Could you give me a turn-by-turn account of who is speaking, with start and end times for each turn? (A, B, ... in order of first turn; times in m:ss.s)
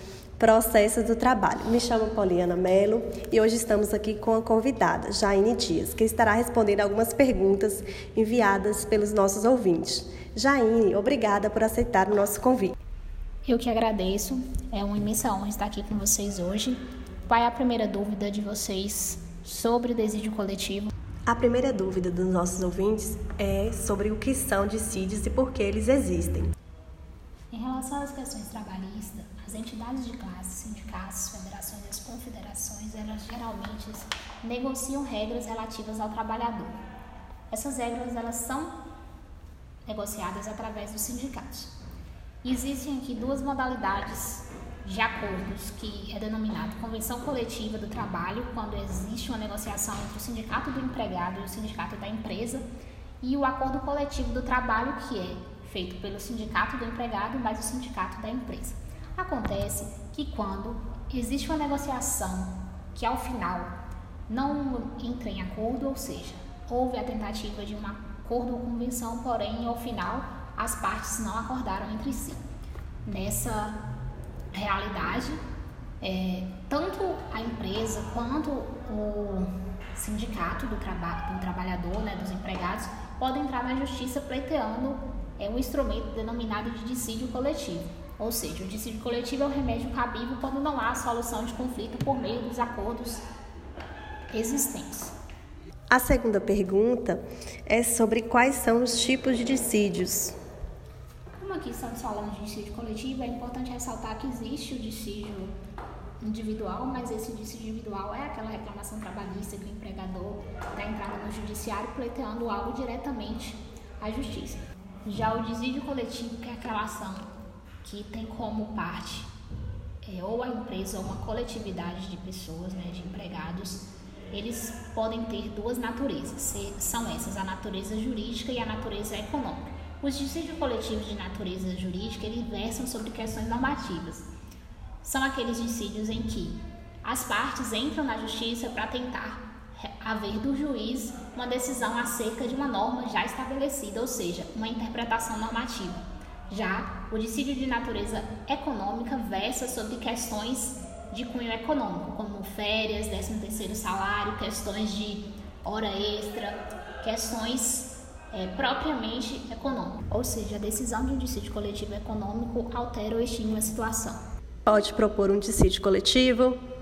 0:00.4-0:12.7 A
0:13.4-0:20.9 B
0:21.3-0:26.5 A
0:27.5-0:36.7 B
0:37.5-0:38.7 B
0:39.8-0:41.7 B
0:42.4-0:52.6 B
0:53.2-1:03.7 B
1:04.3-1:12.4 B
1:13.0-1:13.8 B
1:14.5-1:15.4 B
1:16.0-1:33.2 B
1:34.3-1:35.1 B
1:35.9-1:40.3 A
1:41.3-1:45.5 B
1:46.2-1:57.2 B
1:57.8-1:59.3 B
2:00.0-2:14.2 B
2:15.0-2:44.2 B
2:44.7-2:46.6 A